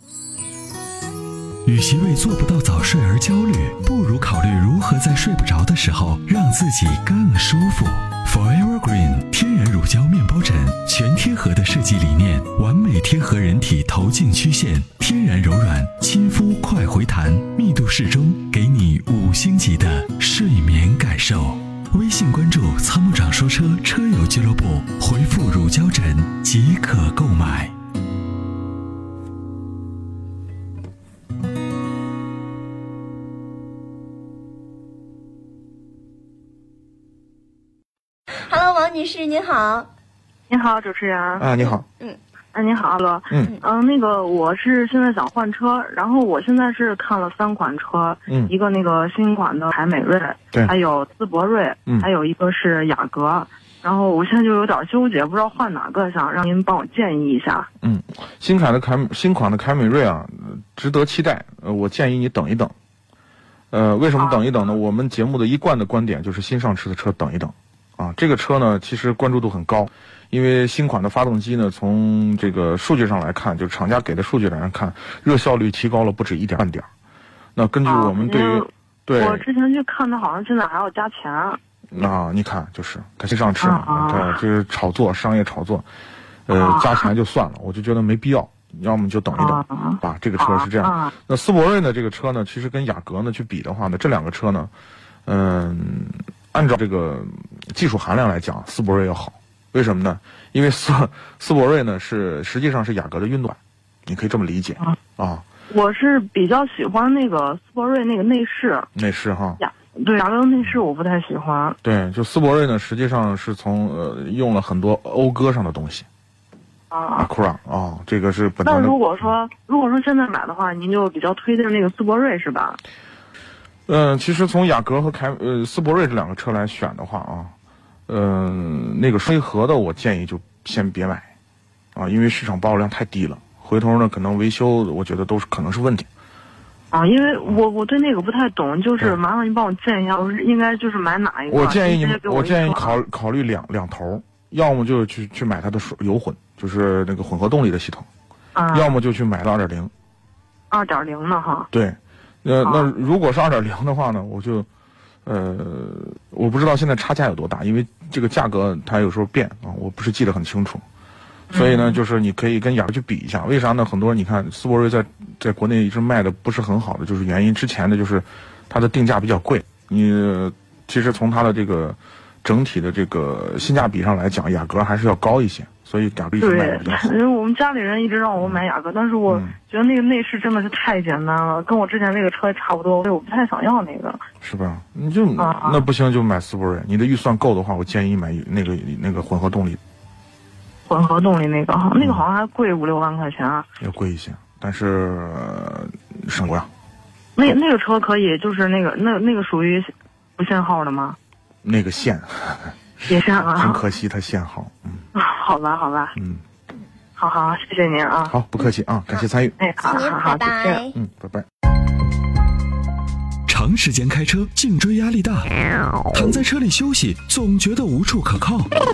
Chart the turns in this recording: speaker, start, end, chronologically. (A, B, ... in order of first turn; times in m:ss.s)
0:01.6-0:27.7 A
0:38.4-0:39.9 B
0:40.5-0:41.5 C
0:41.4-0:41.8 D
0:41.7-0:42.2 B
0:42.5-0:57.7 C
0:43.3-0:43.6 D
0:57.8-1:02.7 D
1:03.7-1:16.9 D
1:04.2-1:04.4 C
1:17.6-1:19.4 D
1:17.8-1:21.6 C
1:21.9-1:25.8 D
1:23.6-1:24.4 C
1:26.4-1:34.7 D
1:26.5-1:27.1 C
1:29.3-1:31.1 C
1:35.2-1:45.4 D
1:45.7-1:48.9 C
1:48.9-1:49.6 D
1:49.6-1:51.8 C
1:51.8-1:56.1 D
1:56.9-1:57.3 C
1:57.2-1:59.0 D
1:58.6-2:02.8 C
2:03.9-2:07.5 D
2:08.1-2:11.3 D
2:11.9-2:16.1 D
2:16.9-2:23.0 C
2:21.5-2:28.1 D
2:28.5-2:28.9 C
2:28.7-2:29.9 D
2:30.7-2:31.7 C
2:31.7-2:34.7 D
2:32.6-2:32.9 C
2:35.2-2:40.8 D
2:41.5-2:57.2 D
2:41.5-2:41.9 C
2:56.4-3:04.2 C
2:59.3-2:59.5 D
3:04.4-3:09.8 D
3:05.4-3:05.8 C
3:10.9-3:13.6 C
3:12.0-3:12.2 D
3:13.8-3:16.7 D
3:17.4-3:21.2 C
3:21.6-3:25.0 D
3:23.1-3:23.8 C
3:25.1-3:26.1 C
3:26.2-3:26.4 D
3:27.2-3:28.3 C
3:28.3-3:29.6 D
3:29.6-3:30.9 C
3:29.8-3:30.9 B
3:30.9-3:31.4 D
3:33.5-3:35.5 A
3:36.1-3:38.7 A